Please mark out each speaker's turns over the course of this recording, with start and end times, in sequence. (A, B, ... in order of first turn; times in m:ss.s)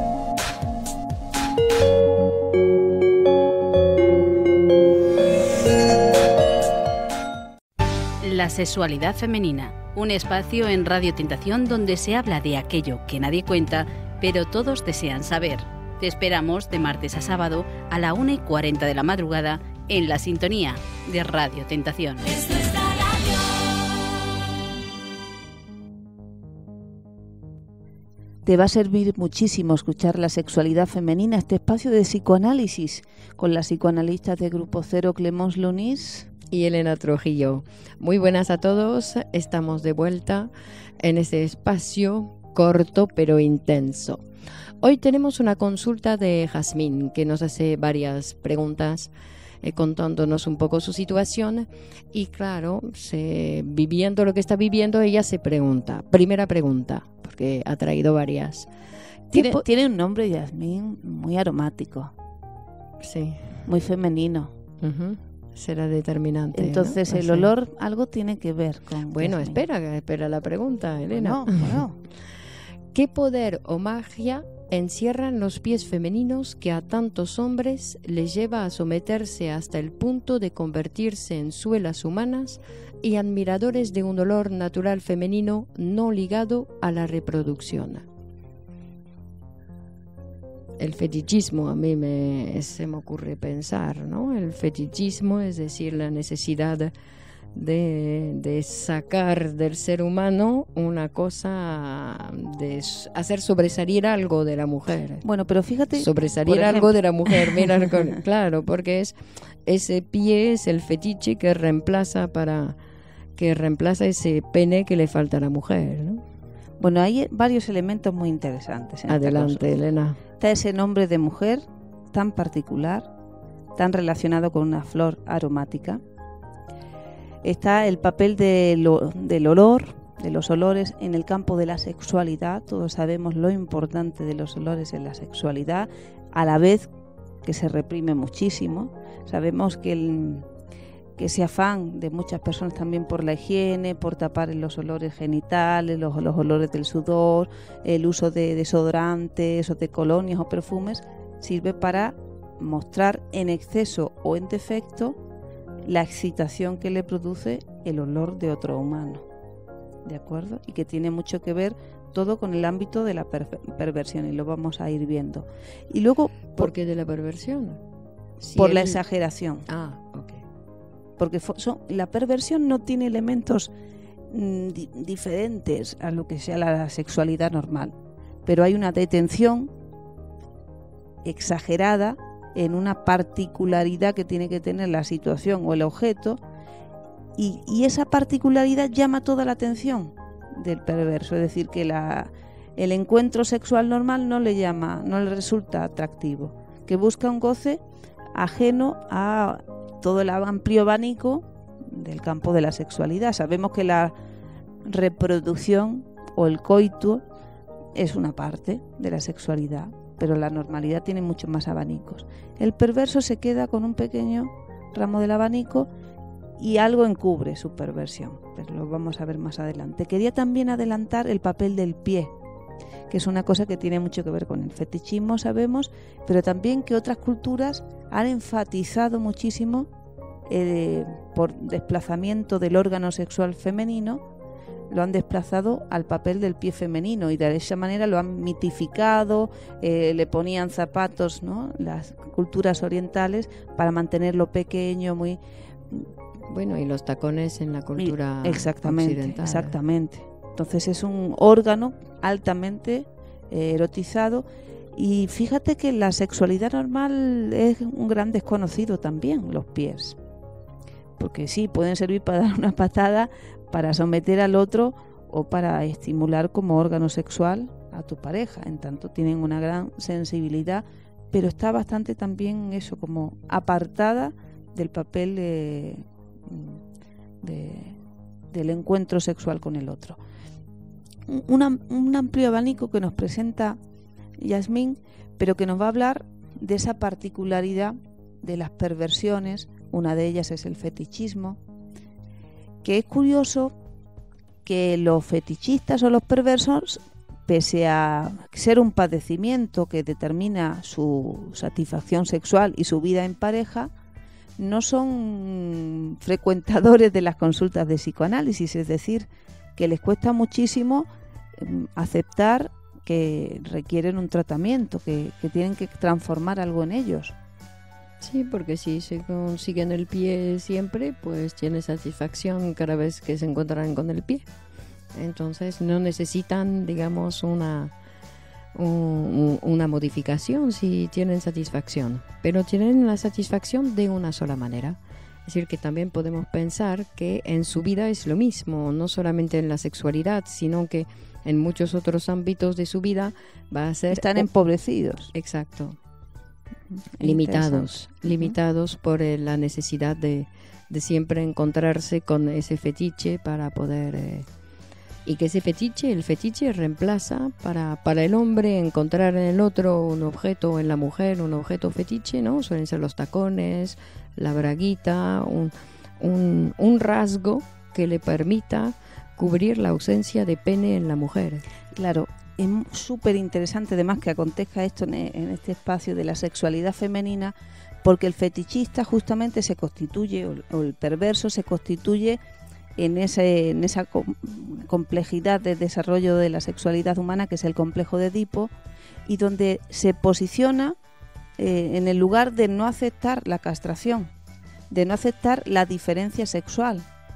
0:08.2-0:22.9 A
0:28.4-0:36.3 B
0:36.5-0:44.2 C
0:44.8-0:49.1 C
0:49.6-0:58.7 C
0:59.3-0:59.6 C
0:59.3-1:02.1 B
1:03.0-1:03.5 C
1:03.7-1:04.5 B
1:04.8-1:07.5 C
1:06.5-1:09.6 B
1:09.1-1:11.8 C
1:11.1-1:12.0 B
1:12.9-1:28.0 C
1:30.8-1:36.9 C
1:37.5-1:45.2 C
1:45.2-1:47.8 B
1:45.9-1:52.8 C
1:53.4-1:56.2 C
1:56.8-1:59.7 B
1:59.1-2:00.2 C
2:00.4-2:03.1 B
2:03.8-2:06.0 B
2:07.4-2:16.9 B
2:17.4-2:20.5 B
2:21.2-2:35.2 B
2:35.8-2:39.2 B
2:40.0-2:46.7 B
2:46.5-2:47.8 C
2:48.4-2:49.0 C
2:48.6-2:49.7 B
2:49.7-2:50.4 C
2:51.2-2:53.7 B
2:54.3-2:57.9 B
2:58.4-2:59.7 B
3:01.2-3:06.4 B
3:07.4-3:17.8 B
3:18.3-3:24.1 B
3:24.8-3:27.2 B
3:28.0-3:35.9 B
3:36.6-3:42.3 B
3:43.1-3:49.9 B
3:50.5-3:54.2 B
3:54.9-4:05.4 B
4:06.5-4:09.8 C
4:08.0-4:20.2 B
4:21.2-4:36.8 B
4:37.4-4:38.0 B
4:38.5-4:40.2 B
4:41.3-4:43.8 B
4:44.4-4:51.6 B
4:52.8-4:53.8 B
4:54.6-5:03.9 B
5:04.6-5:17.4 B
5:18.2-5:24.5 C
5:25.1-5:27.9 C
5:28.8-5:44.5 C
5:44.1-5:45.3 B
5:45.3-5:46.0 C
5:46.9-5:48.6 B
5:47.2-5:54.5 C
5:55.2-6:11.6 C
6:11.9-6:22.4 B
6:23.0-6:28.7 B
6:29.3-6:31.0 B
6:31.6-6:34.3 B
6:34.9-6:37.1 B